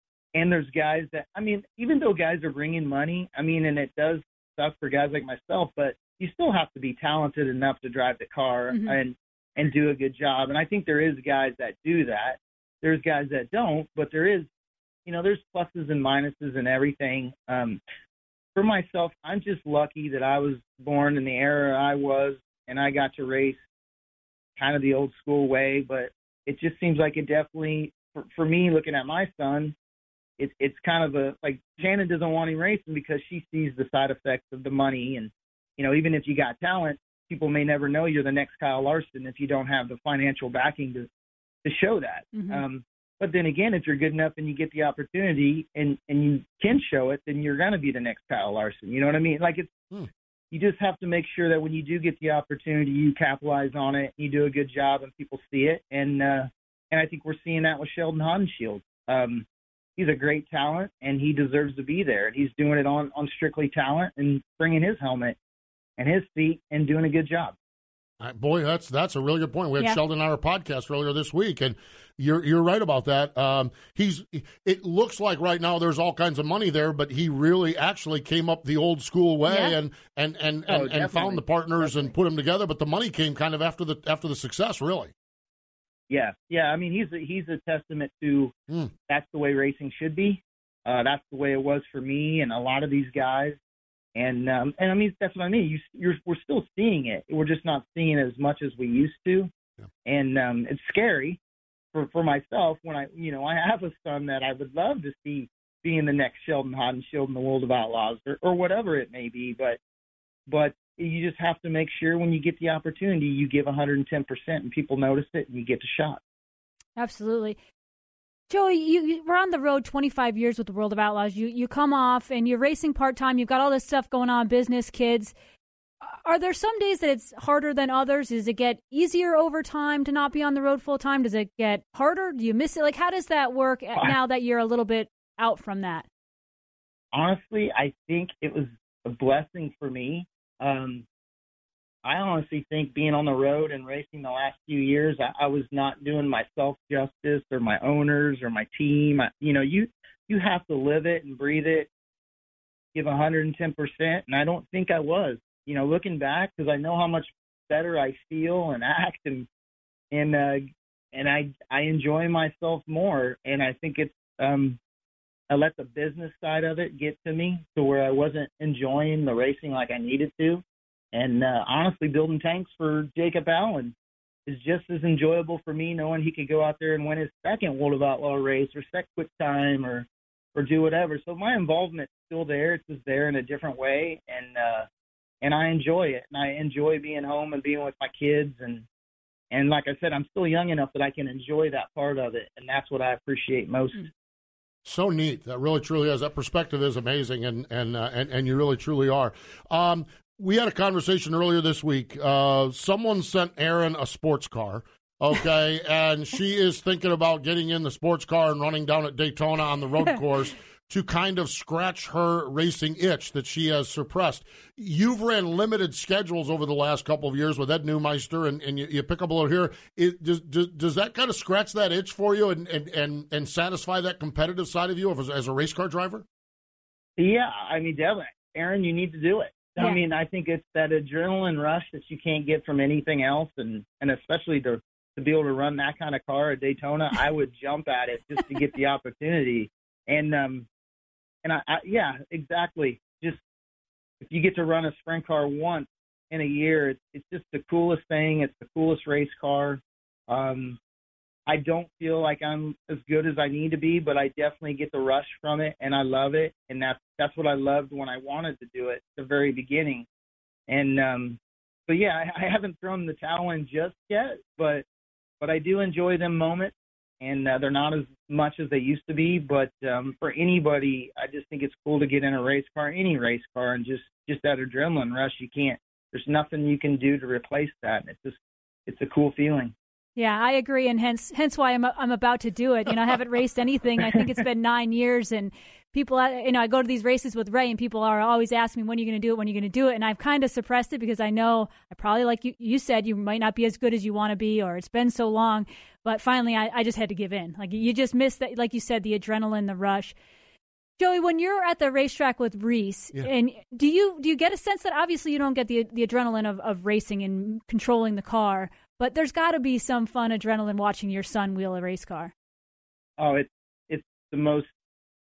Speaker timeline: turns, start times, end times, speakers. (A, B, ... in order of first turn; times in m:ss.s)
0:00.3-0:14.5 A
0:08.7-0:09.0 B
0:15.0-0:17.8 A
0:18.6-0:23.6 A
0:24.6-0:29.7 A
0:30.4-0:41.1 A
0:41.6-0:49.7 A
0:42.3-0:42.6 B
0:50.5-0:59.4 A
1:00.0-1:05.4 A
1:06.0-1:07.5 A
1:08.2-1:25.1 C
1:19.5-1:19.7 B
1:20.7-1:22.1 A
1:26.1-1:28.5 A
1:29.1-1:33.6 A
1:34.1-1:39.5 A
1:40.0-1:41.4 A
1:41.9-1:49.8 A
1:50.5-1:56.2 A
1:57.0-1:57.6 B
1:58.5-2:05.3 B
2:06.0-2:16.1 B
2:17.1-2:21.0 A
2:22.0-2:31.9 A
2:32.9-2:39.5 A
2:40.1-2:44.8 A
2:45.5-2:50.6 A
2:51.1-2:53.9 A
2:54.5-3:04.9 A
3:05.4-3:08.8 A
3:09.5-3:14.1 A
3:14.8-3:46.2 C
3:47.2-4:00.6 A
4:01.4-4:03.4 A
4:04.2-4:10.8 A
4:11.5-4:20.0 A
4:20.7-4:24.8 A
4:25.4-4:39.7 A
4:40.2-5:00.1 B
5:01.0-5:12.3 B
5:13.2-5:14.7 A